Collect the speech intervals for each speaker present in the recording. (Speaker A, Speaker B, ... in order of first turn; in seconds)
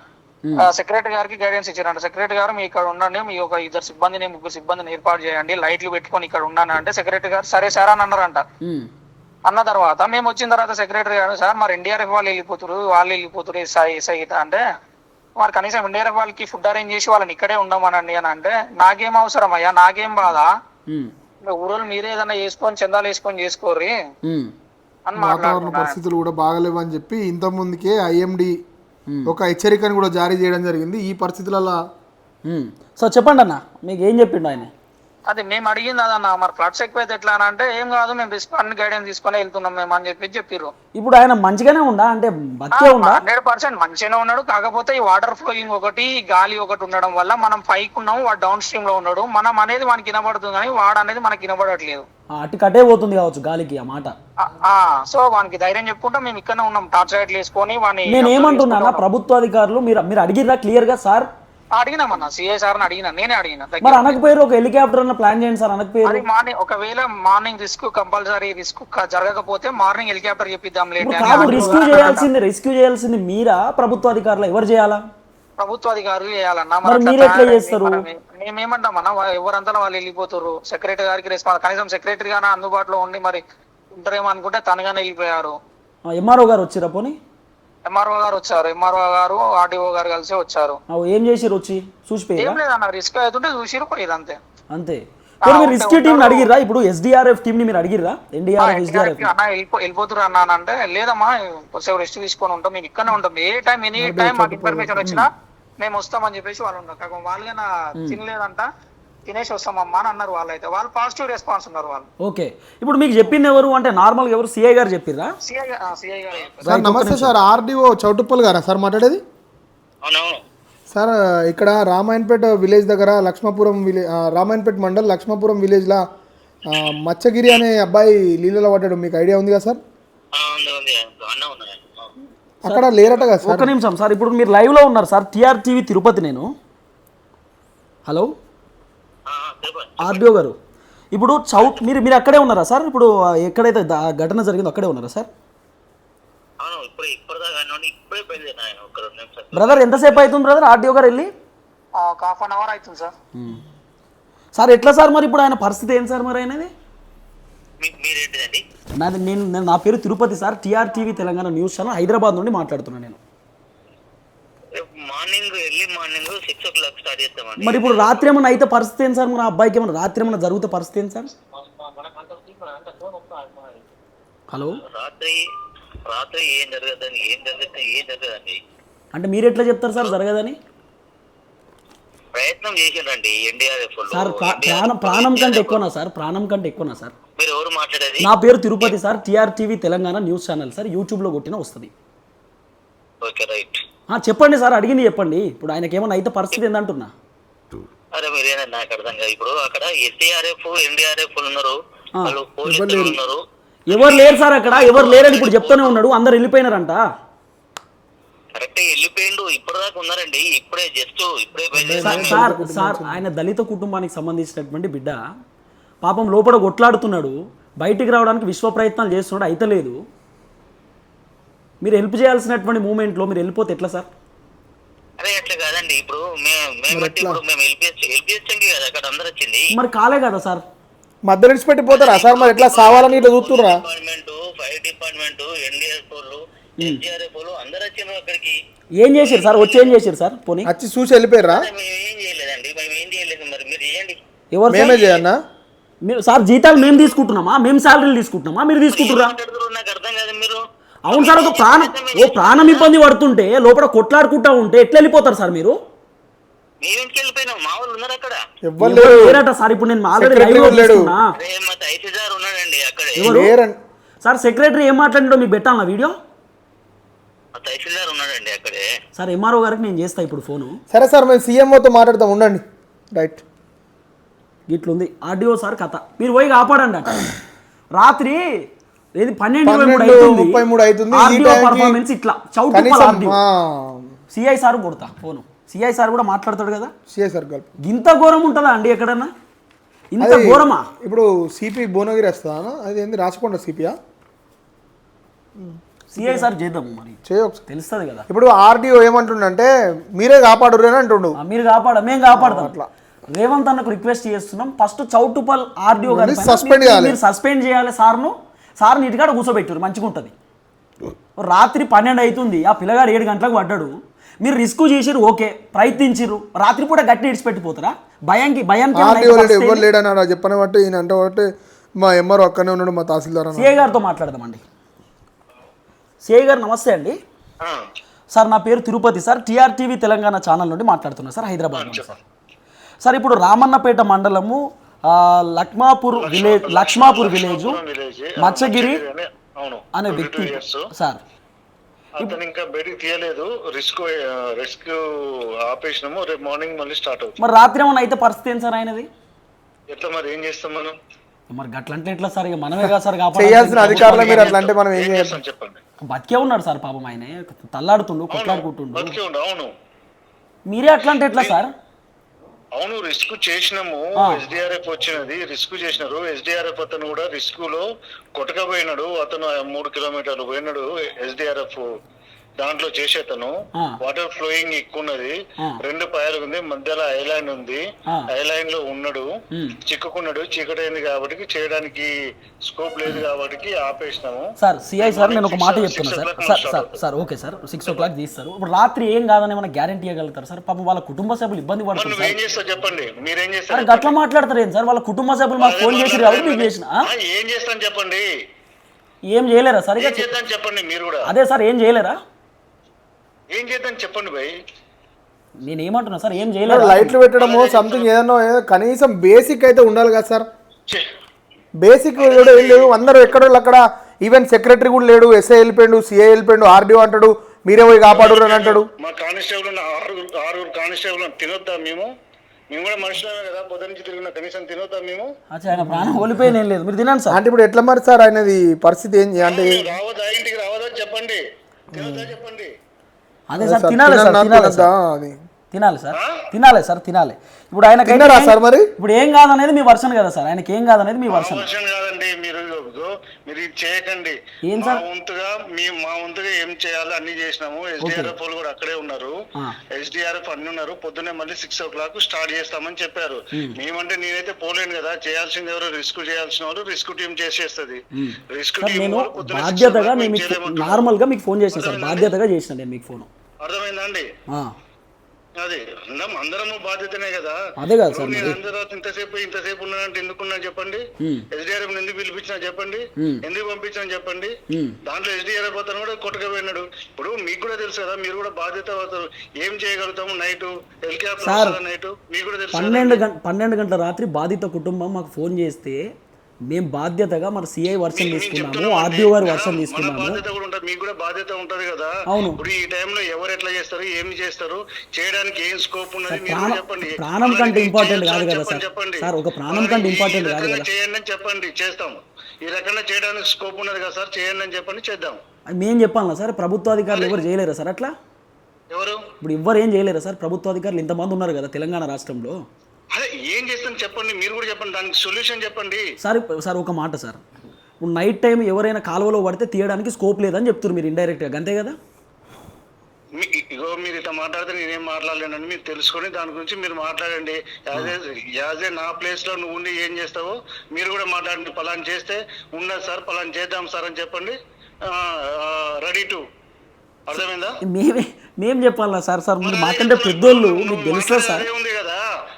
Speaker A: 0.6-8.4, 9.5-14.6, 15.4-20.5, 21.4-23.9, 25.1-25.9, 35.3-40.7, 42.8-52.1, 54.4-59.0, 61.8-64.1, 66.0-72.3, 75.6-83.4, 84.0-85.6, 87.9-90.8, 92.4-94.4, 95.5-96.5, 98.6-108.7, 109.3-112.1, 115.4-116.7, 152.0-153.1, 171.8-173.8
Speaker B: 8.6-8.9, 24.2-24.5, 32.5-34.7, 41.0-43.2, 52.4-54.1, 58.1-61.3, 63.8-66.2, 71.0-75.0, 76.8-78.0, 86.1-87.2, 90.9-92.6, 94.7-99.3, 112.2-115.3, 116.7-117.3, 133.4-136.5, 138.1-138.3, 140.0-140.6, 141.1-145.3, 149.5-151.3, 153.4-153.6, 154.6-156.7, 159.0-163.2, 167.6-171.3, 174.5-174.8, 179.1-180.6, 184.1-187.1, 188.2-191.9, 194.1-197.1, 203.9-207.0, 212.0-215.2, 216.0-220.0, 221.8-224.1, 229.7-230.6, 239.0-240.7, 244.5-245.0, 246.0-249.3, 251.1-255.8, 258.8-261.3, 263.2-263.5, 264.2-266.2, 269.2-270.8, 274.7-277.2, 278.0-278.4, 279.2-280.6, 281.1-283.4, 284.3-286.9, 287.8-289.3, 290.1-290.9, 296.1-298.3, 301.4-302.7, 303.3-310.3, 311.4-319.9, 323.6-324.6, 326.2-327.2, 328.3-332.2, 333.0-337.8, 338.4-339.0, 339.9-341.2, 347.4-349.1, 351.5-354.6, 356.1-359.1, 360.7-361.7, 364.2-364.4, 379.5-379.8, 384.6-392.4, 393.7-397.0, 399.3-400.2, 401.3-402.2, 405.6-407.2, 425.5-427.4, 433.5-434.9, 435.7-441.7, 444.7-445.0, 448.0-448.3, 458.1-463.3, 464.5-464.7, 467.8-468.6, 471.2-471.5, 473.2-473.4, 474.7-475.0, 481.4-481.8, 482.7-486.0, 486.7-490.4, 492.3-492.6, 496.3-500.9, 505.7-508.1, 509.4-512.6, 516.2-517.4, 518.0-522.0, 537.9-541.7
Speaker C: 25.2-28.6, 29.3-31.8, 104.0-105.0, 116.7-119.2, 120.9-126.0, 126.7-129.8, 132.6-133.7, 202.6-203.2, 211.7-213.2, 226.9-227.4, 231.2-233.8, 240.6-241.7, 244.7-245.4, 258.6-259.4, 260.2-261.1, 263.2-263.8, 270.9-273.4, 279.6-282.0, 282.7-284.1, 287.1-287.7, 290.2-294.0, 295.6-296.5, 297.3-297.6, 298.3-301.4, 302.3-302.9, 306.0-307.2, 318.9-324.0, 353.4-355.4, 406.7-410.5, 411.8-418.9, 425.8-426.6, 427.3-429.9, 432.0-432.3, 433.6-435.4, 438.1-438.9
Speaker D: 120.0-120.4, 130.3-132.1, 139.3-140.3, 146.6-150.2, 157.8-158.6, 164.8-168.2, 174.9-175.4, 176.1-178.6, 182.3-185.8, 187.4-188.3, 193.2-193.8, 198.1-203.4, 203.9-205.9, 208.6-212.5, 225.2-229.7, 231.9-238.6, 239.2-240.0, 241.5-244.2, 248.9-252.9, 256.8-258.4, 261.4-263.4, 267.6-268.8
Speaker E: 331.7-332.2, 336.2-340.9, 342.2-345.0, 345.7-347.4, 349.9-351.0, 353.8-355.8, 358.3-359.7, 361.2-361.6, 362.8-371.9, 372.6-377.8, 378.3-379.3, 379.9-382.1, 382.7-384.5, 385.0-387.0, 391.9-394.1, 395.6-398.2, 400.0-401.3, 403.5-404.5, 407.4-408.1, 412.2-413.4, 418.1-422.1, 422.7-425.3, 429.4-431.4, 431.9-432.7, 436.1-436.4, 441.3-449.3, 449.9-461.1, 461.7-462.3, 463.6-464.3, 465.6-474.5, 475.1-483.2, 488.1-505.4, 507.1-507.4, 508.9-509.2, 513.1-516.0, 523.4-534.5, 535.1-536.4, 537.3-537.8, 539.6-542.2